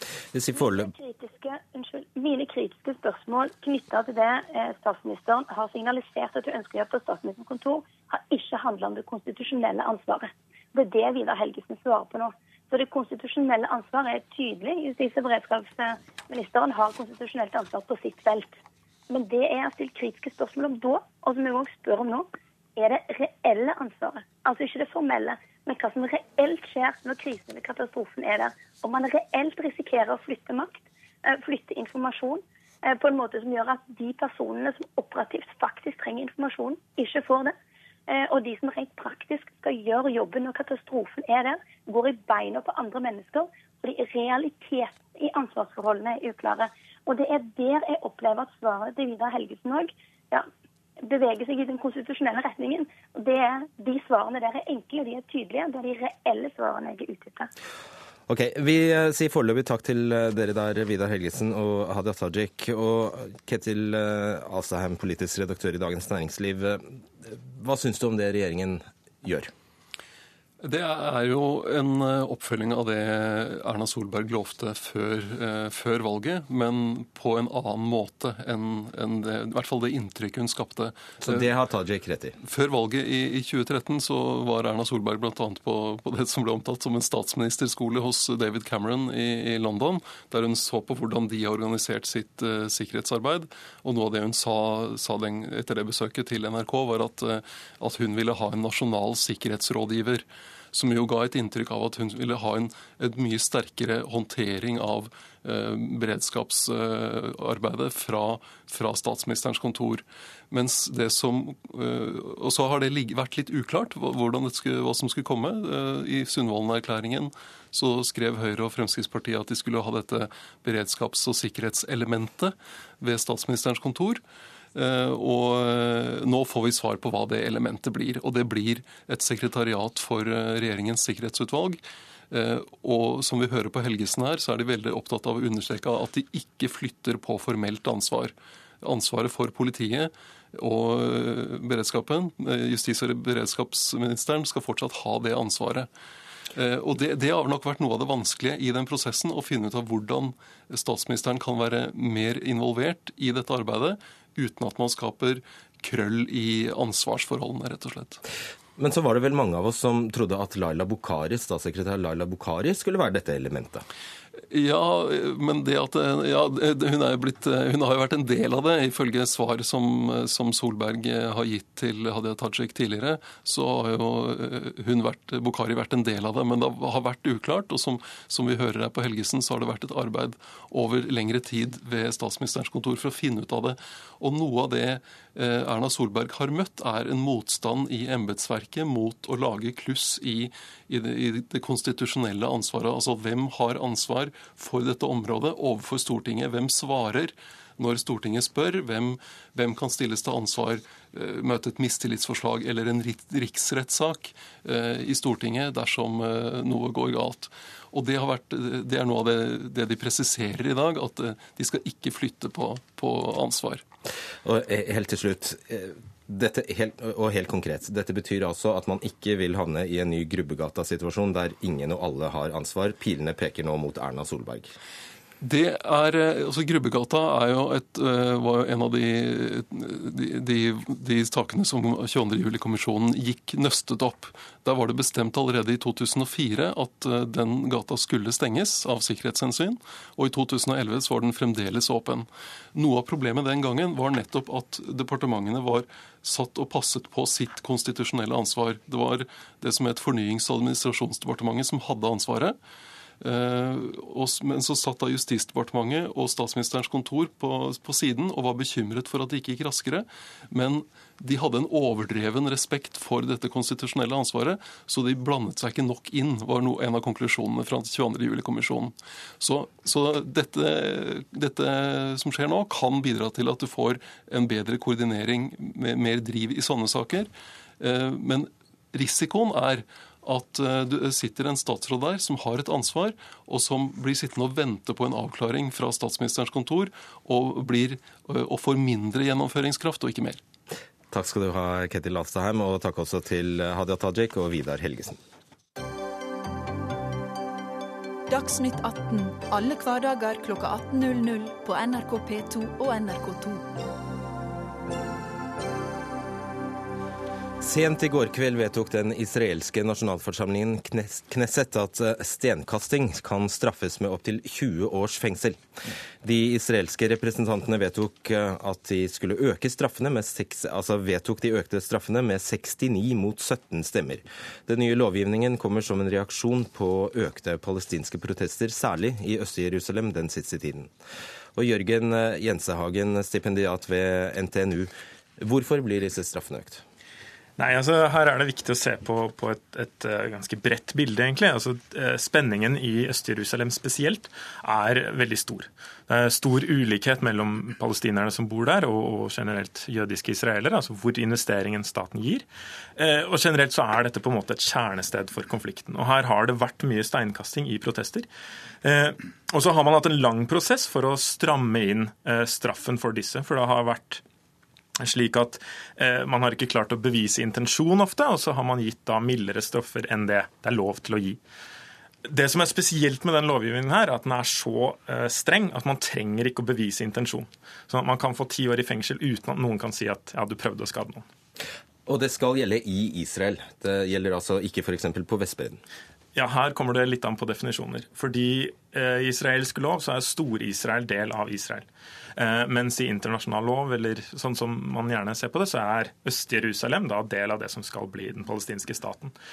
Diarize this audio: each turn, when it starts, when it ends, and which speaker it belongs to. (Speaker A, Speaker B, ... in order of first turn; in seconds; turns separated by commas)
Speaker A: 0.3-0.9, Speaker B: 0.5-18.6, Speaker B: 19.1-37.5, Speaker B: 38.1-50.5, Speaker B: 51.0-57.5, Speaker A: 58.3-69.5, Speaker C: 70.6-81.5, Speaker A: 81.2-82.3, Speaker C: 82.4-124.2, Speaker C: 124.7-145.9, Speaker C: 146.5-158.2, Speaker A: 158.8-163.8, Speaker C: 164.5-213.8, Speaker A: 214.4-224.7, Speaker C: 225.4-252.6, Speaker C: 253.2-290.4, Speaker A: 291.1-295.2, Speaker D: 298.3-303.6, Speaker A: 307.6-315.6, Speaker A: 316.2-330.9, Speaker A: 331.5-336.8, Speaker E: 337.6-358.3, Speaker E: 358.8-364.2, Speaker E: 365.0-371.4, Speaker E: 372.2-381.2, Speaker A: 382.1-385.8, Speaker E: 386.3-399.3